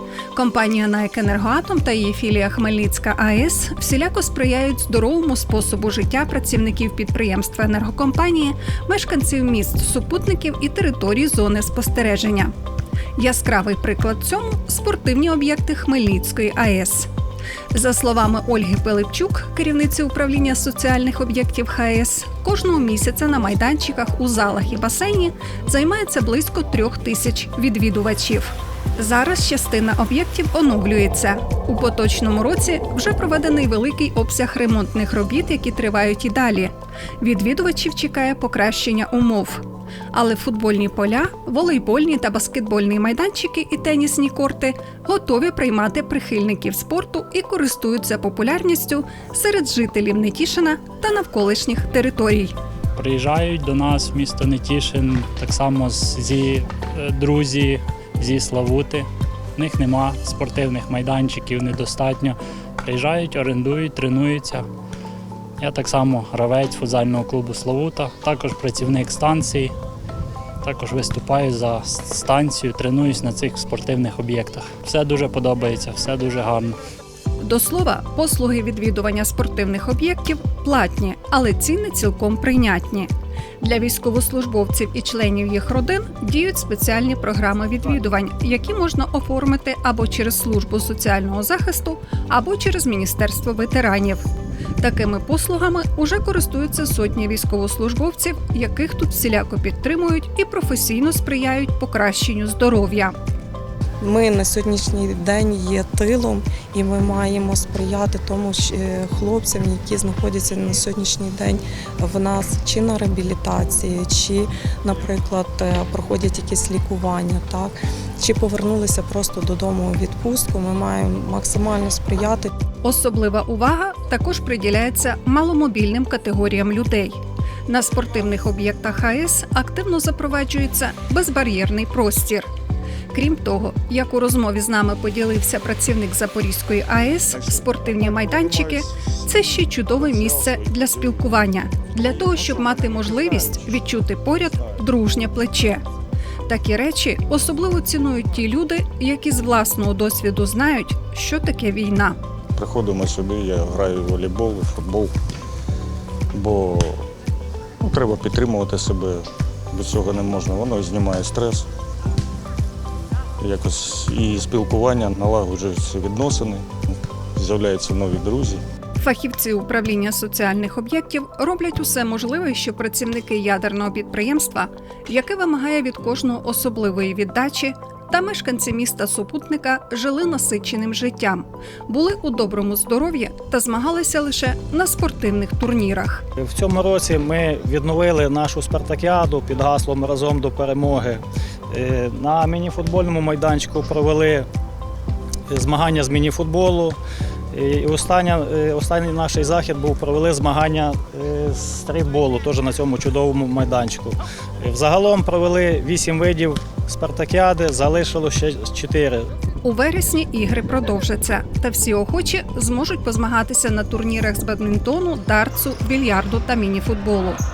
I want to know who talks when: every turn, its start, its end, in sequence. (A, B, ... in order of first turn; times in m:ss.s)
0:00.3-0:12.5 A
0:13.2-0:17.1 A
0:17.7-0:52.5 A
0:53.0-1:04.6 B
1:05.6-1:09.7 B
1:10.6-1:16.8 B
1:17.4-1:34.2 A
1:34.8-1:43.1 A
1:44.0-2:02.5 C
2:02.8-2:12.5 A
2:13.1-2:25.8 A
2:17.5-2:18.8 D
2:19.9-2:21.4 D
2:22.0-2:23.8 D
2:26.5-2:32.2 A
2:32.6-2:35.1 D
2:36.3-2:37.0 D
2:37.8-2:41.7 D
2:43.4-2:48.6 D
2:49.0-3:06.2 A
3:06.4-3:14.5 E
3:15.5-3:17.0 E
3:17.5-3:29.3 E
3:29.6-3:37.4 A